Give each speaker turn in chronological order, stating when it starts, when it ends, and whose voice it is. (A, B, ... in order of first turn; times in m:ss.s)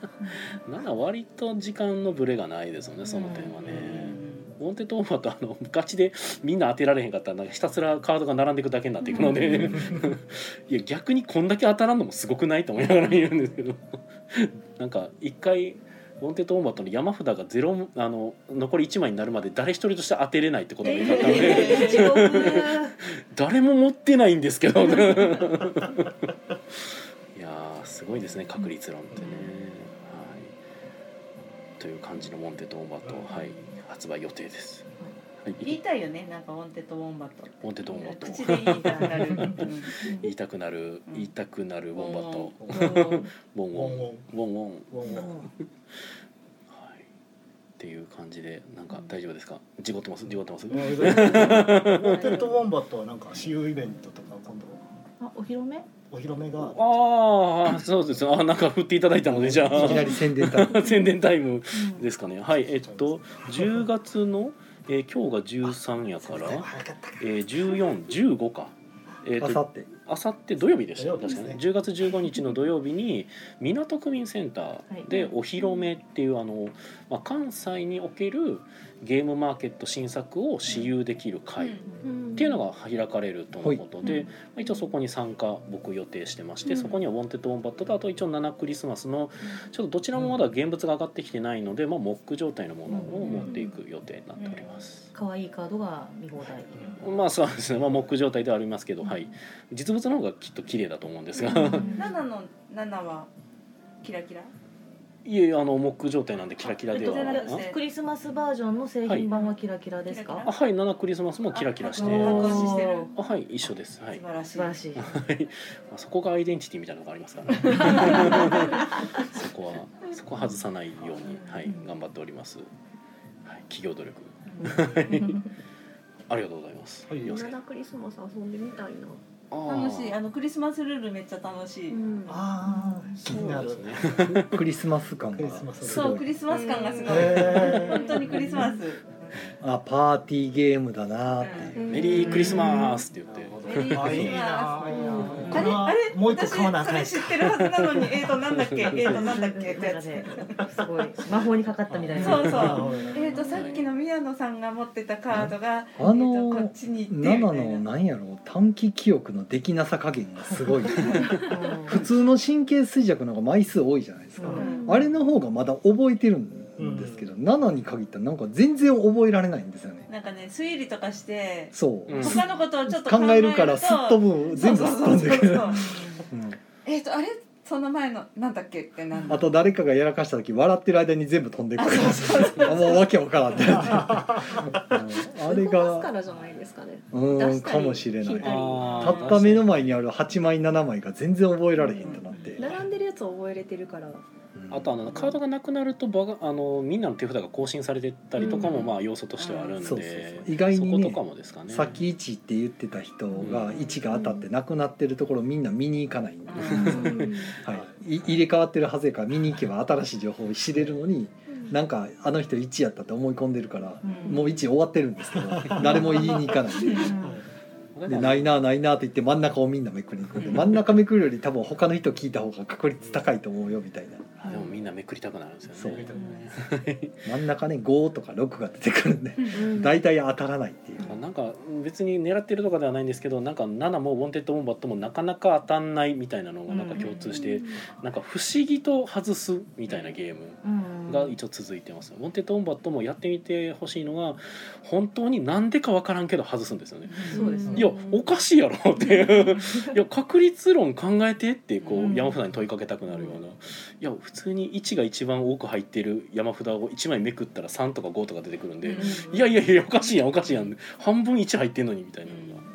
0:00.5-0:26.1 A
0:03.1-0:04.5 B
0:03.2-0:03.7 C
0:09.0-0:10.0 B
0:09.2-0:09.9 C
0:20.8-0:22.9 B
0:21.4-0:21.8 C
0:27.3-0:30.5 A
0:31.8-0:34.8 A
0:33.3-0:33.7 B
0:35.4-0:35.8 A
0:35.6-0:40.2 B
0:37.6-0:45.2 A
0:39.5-0:40.3 C
0:41.9-0:43.3 B
0:42.6-0:43.0 D
0:43.7-0:44.3 D
0:44.9-0:45.3 D
0:45.0-0:45.5 C
0:46.7-0:47.0 A
0:47.8-0:52.4 A
0:50.7-0:54.8 D
0:52.0-0:52.4 C
0:55.2-0:55.9 C
0:56.1-0:56.9 D
0:56.6-1:21.8 A
0:59.2-1:00.9 E
1:01.7-1:02.1 C
1:02.6-1:03.8 D
1:05.6-1:07.5 D
1:09.4-1:09.9 E
1:11.0-1:11.6 D
1:21.6-1:21.8 B
1:22.0-1:22.6 F
1:22.3-1:35.1 A
1:32.9-1:33.6 C
1:33.3-1:33.6 B
1:34.4-1:34.7 B
1:35.1-1:37.0 C
1:37.0-1:41.9 A
1:41.4-1:42.2 C
1:41.8-1:43.3 B
1:44.0-1:44.5 B
1:45.2-1:47.6 A
1:46.6-1:47.8 B
1:46.9-1:50.5 C
1:49.3-1:50.5 B
1:50.4-1:54.2 A
1:51.5-1:53.1 B
1:52.0-1:53.1 C
1:54.1-1:54.8 B
1:54.5-1:55.1 C
1:55.0-2:02.7 A
1:57.7-1:58.4 B
2:03.4-2:05.4 A
2:04.6-2:05.4 C
2:06.3-2:07.6 A
2:07.1-2:07.5 D
2:07.2-2:09.2 F
2:09.5-2:10.2 A
2:09.6-2:12.0 B
2:11.9-2:12.5 F
2:12.3-2:14.4 D
2:12.7-2:13.0 C
2:13.2-2:14.6 A
2:14.2-2:16.2 E
2:15.3-2:16.2 D
2:15.8-2:19.1 B
2:16.5-2:18.8 F
2:17.0-2:18.6 D
2:19.6-2:21.8 E
2:21.4-2:22.5 B
2:21.8-2:23.0 F
2:21.8-2:24.4 A
2:23.2-2:27.6 D
2:23.6-2:30.6 B
2:24.9-2:25.3 F
2:25.1-2:25.6 C
2:28.6-2:29.1 A
2:29.0-2:33.4 C
2:31.2-2:33.4 D
2:32.2-2:37.8 B
2:33.5-2:33.9 A
2:35.3-2:41.3 E
2:41.4-2:42.0 C
2:41.9-2:50.1 E
2:44.4-2:44.7 C
2:44.5-2:45.0 B
2:44.6-2:45.0 F
2:46.8-2:47.3 D
2:50.1-2:56.2 B
2:51.7-2:56.6 E
2:52.1-2:52.5 A
2:56.8-2:59.5 B
2:59.3-3:06.1 E
3:01.8-3:03.1 B
3:03.8-3:04.7 D
3:05.2-3:09.3 F
3:07.1-3:12.6 E
3:08.4-3:10.0 A
3:08.8-3:09.2 B
3:11.8-3:14.2 F
3:14.5-3:15.0 E
3:14.7-3:22.0 A
3:18.4-3:18.8 F
3:18.4-3:18.8 B
3:19.4-3:19.8 B
3:19.8-3:37.2 E
3:23.4-3:23.7 A
3:24.1-3:24.4 F
3:26.5-3:27.2 B
3:26.8-3:27.6 F
3:27.6-3:27.9 D
3:34.0-3:34.5 C
3:34.0-3:34.5 B
3:35.3-3:36.6 D
3:35.9-3:37.4 C
3:37.1-3:37.4 D
3:38.0-3:38.5 A
3:38.1-3:44.3 E
3:44.4-3:47.2 A
3:44.4-3:44.7 C
3:45.7-3:46.1 E
3:46.1-3:46.4 D
3:46.2-3:46.4 C
3:47.2-3:51.2 E
3:49.5-3:49.9 F
3:51.0-4:22.6 A
3:56.7-3:57.4 C
3:57.4-3:57.6 F
4:00.6-4:01.4 C
4:07.1-4:07.8 B
4:07.3-4:07.9 C
4:07.3-4:08.1 F
4:09.3-4:09.9 C
4:11.8-4:12.2 B
4:12.0-4:12.4 C
4:18.8-4:19.3 B
4:18.9-4:19.5 C
4:22.3-4:22.6 B